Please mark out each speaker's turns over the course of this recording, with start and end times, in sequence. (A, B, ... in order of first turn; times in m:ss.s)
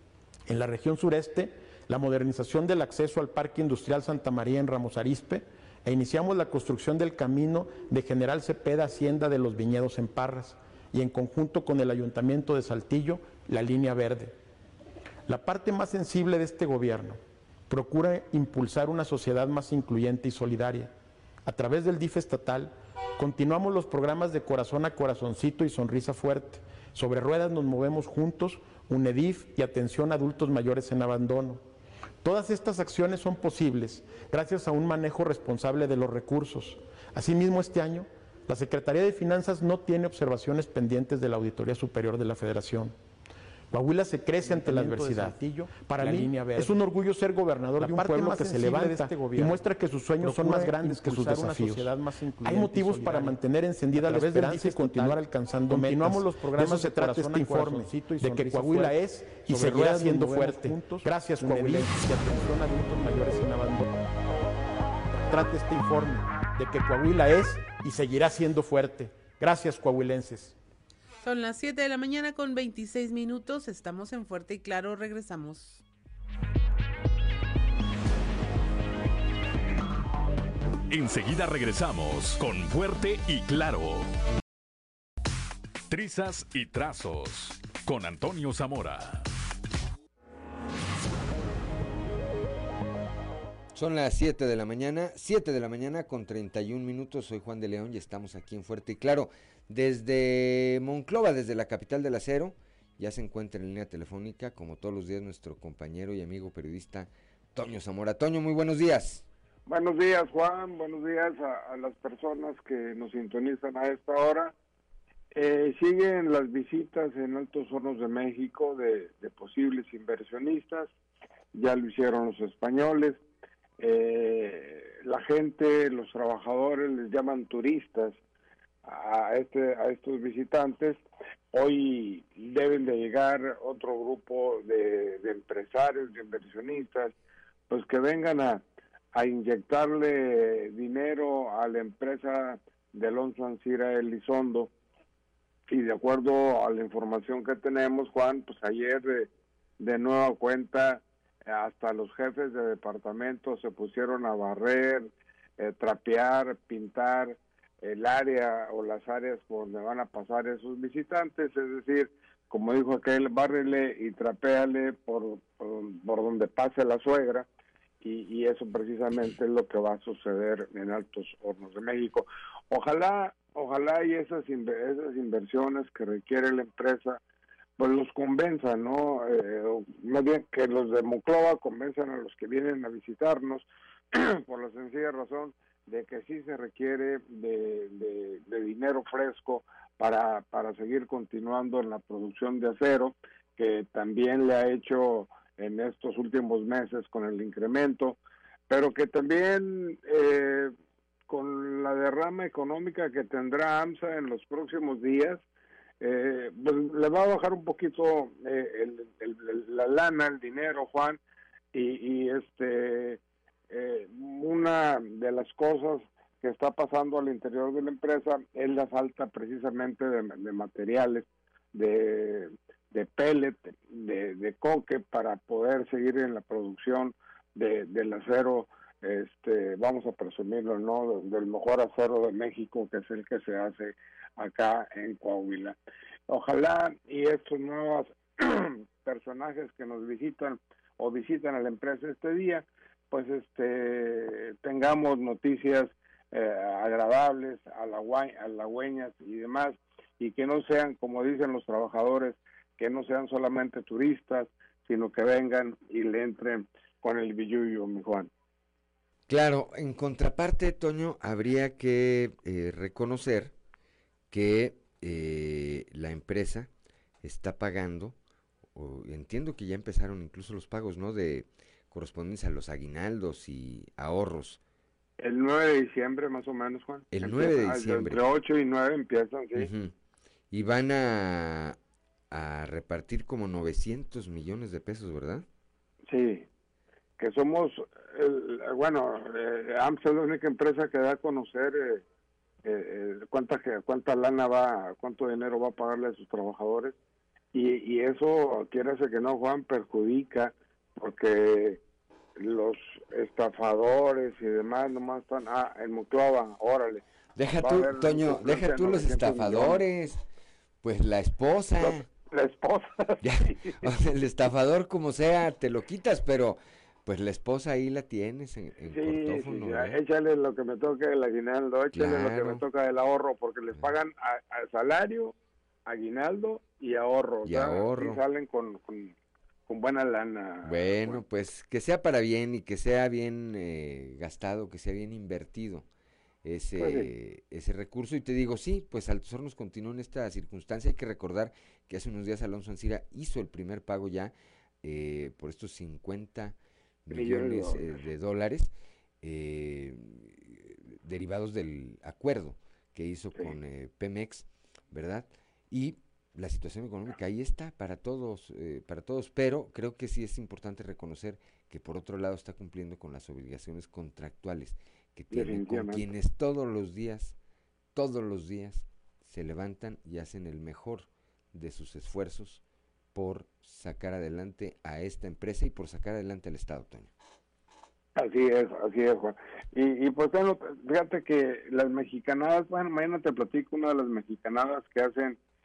0:00.5-0:14.3 A
0:15.3-0:17.2 A
0:17.7-0:20.9 A
0:21.5-0:31.6 A
0:32.2-0:42.9 A
0:43.7-1:04.0 A
1:05.1-1:10.5 A
1:11.2-1:15.8 B
1:20.9-1:24.1 C
1:25.9-1:29.2 C
1:33.8-1:49.3 D
1:49.7-1:54.5 E
1:55.4-2:00.9 E
2:01.5-2:03.2 E
2:03.8-2:08.2 E
2:08.9-2:11.0 E
2:11.5-2:17.1 E
2:17.7-2:18.6 E
2:19.2-2:24.7 E
2:25.7-2:29.3 E
2:29.8-2:35.1 E
2:35.6-2:47.5 E
2:48.0-2:57.2 E
2:57.8-3:18.2 E
3:18.7-3:20.7 E
3:21.3-3:25.4 E
3:26.0-3:31.2 E
3:31.7-3:33.2 E
3:33.7-3:55.8 E
3:56.3-4:18.3 E
4:19.3-4:23.5 D
4:24.3-4:26.7 D
4:27.2-4:28.2 D
4:28.8-4:34.6 D
4:35.2-4:39.7 E
4:37.1-4:38.2 D
4:39.6-4:39.9 D
4:40.5-4:41.8 D
4:42.3-4:45.4 D
4:46.1-4:46.5 E
4:47.2-4:52.0 E
4:52.6-4:56.9 E
4:57.5-5:01.8 E
5:02.4-5:07.0 E
5:07.4-5:10.2 D
5:07.6-5:09.8 E
5:10.8-5:12.1 D
5:11.8-5:13.9 E
5:13.2-5:20.0 D
5:18.9-5:25.3 E
5:21.9-5:22.6 D
5:25.9-5:29.1 E
5:27.4-5:28.2 D
5:29.7-5:31.2 E
5:30.6-5:35.9 D
5:36.4-5:48.7 D
5:36.8-5:37.1 E
5:47.1-5:47.9 E
5:49.2-6:07.4 D
6:05.3-6:06.1 E
6:08.0-6:12.6 D
6:13.1-6:17.1 D
6:18.2-6:25.4 E